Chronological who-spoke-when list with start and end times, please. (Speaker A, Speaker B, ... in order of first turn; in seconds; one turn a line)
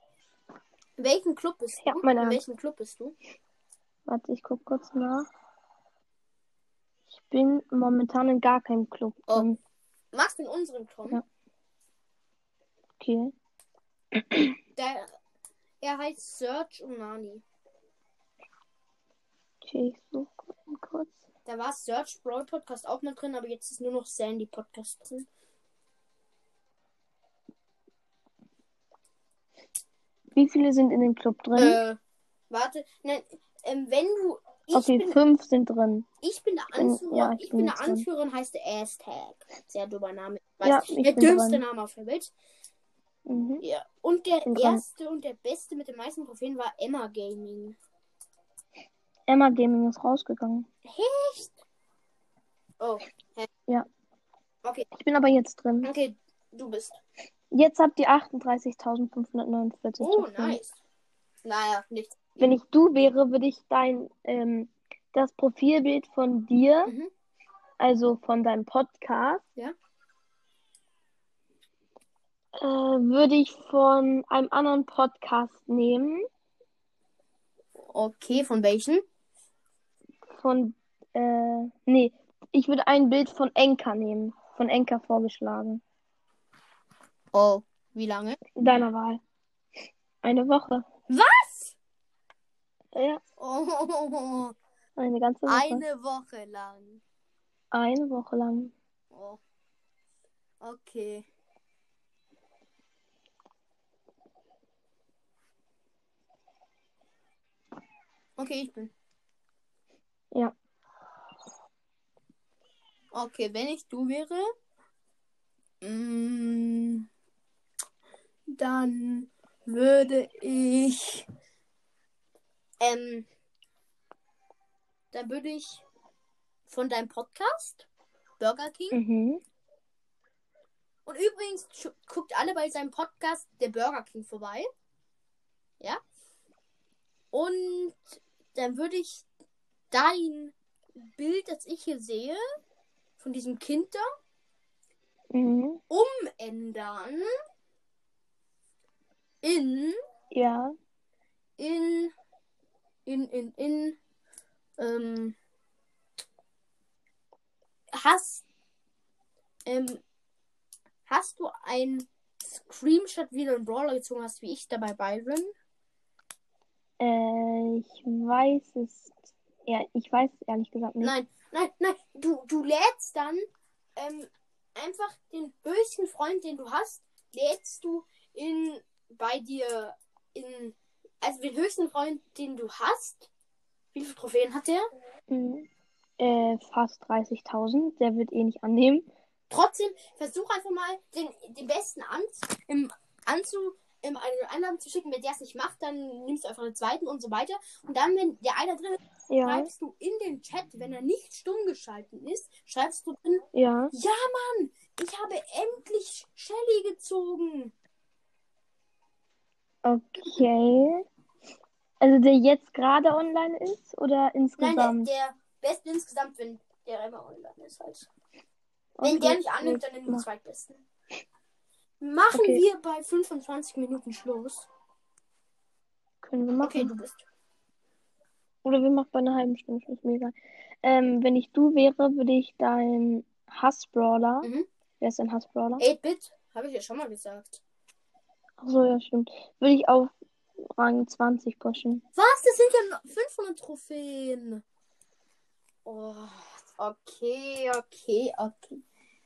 Speaker A: 1.0-3.1
Speaker B: 1.8-2.4
Speaker B: 4.0-5.3
Speaker B: 7.1-9.6
Speaker A: 10.1-11.2
Speaker B: 13.0-13.3
Speaker B: 14.1-14.5
Speaker A: 14.7-15.1
Speaker A: 15.8-17.4
Speaker B: 19.6-21.2
Speaker A: 21.4-25.3
Speaker B: 30.3-31.8
Speaker A: 31.5-32.0
Speaker A: 32.5-35.2
Speaker B: 34.7-36.1
Speaker A: 36.2-42.3
Speaker B: 36.7-38.1
Speaker B: 40.6-41.6
Speaker B: 43.3-43.6
Speaker A: 43.6-47.8
Speaker B: 44.4-44.9
Speaker B: 49.3-50.6
Speaker A: 50.9-51.6
Speaker A: 52.8-53.5
Speaker B: 54.9-55.9
Speaker A: 55.8-57.0
Speaker B: 57.5-60.6
Speaker A: 60.0-60.8
Speaker A: 61.4-62.2
Speaker B: 62.4-66.9
Speaker B: 67.8-69.4
Speaker B: 72.6-76.2
Speaker A: 77.9-79.0
Speaker B: 80.3-85.8
Speaker A: 87.3-88.4
Speaker B: 88.5-89.2
Speaker B: 90.2-90.8
Speaker A: 91.1-91.8
Speaker B: 92.9-93.2
Speaker A: 93.4-94.5
Speaker B: 95.0-95.8
Speaker A: 95.5-97.0
Speaker B: 97.7-98.7
Speaker A: 99.1-99.4
Speaker A: 100.6-101.2
Speaker A: 108.4-108.9
Speaker A: 113.1-114.4
Speaker A: 115.8-117.0
Speaker A: 118.5-121.2
Speaker A: 122.8-123.2
Speaker A: 125.1-125.8
Speaker A: 126.7-127.9
Speaker A: 128.4-129.0
Speaker B: 128.9-129.4
Speaker A: 131.1-134.7
Speaker A: 137.3-139.2
Speaker A: 139.9-142.4
Speaker A: 143.2-144.0
Speaker B: 145.3-145.8
Speaker A: 145.9-147.2
Speaker A: 149.4-149.9
Speaker B: 150.3-150.7
Speaker A: 151.6-152.1
Speaker A: 153.1-154.0
Speaker A: 154.8-155.3
Speaker A: 158.0-158.4
Speaker A: 159.7-160.0
Speaker A: 161.1-165.5
Speaker B: 167.0-171.1
Speaker A: 171.0-173.4
Speaker A: 173.9-183.3
Speaker A: 183.9-184.8
Speaker B: 185.3-185.7
Speaker B: 186.2-189.1
Speaker A: 189.5-207.7
Speaker B: 199.3-199.7
Speaker B: 203.5-203.9
Speaker B: 209.8-211.0
Speaker B: 212.0-215.1
Speaker A: 214.6-218.1
Speaker B: 219.0-220.3
Speaker A: 219.0-220.8
Speaker A: 222.0-224.7
Speaker B: 222.3-222.6
Speaker B: 226.2-226.9
Speaker A: 226.6-227.2
Speaker B: 228.6-234.5
Speaker B: 235.0-235.8
Speaker A: 235.8-237.6
Speaker B: 238.6-240.1
Speaker B: 240.7-242.0
Speaker A: 242.1-244.6
Speaker A: 245.8-248.8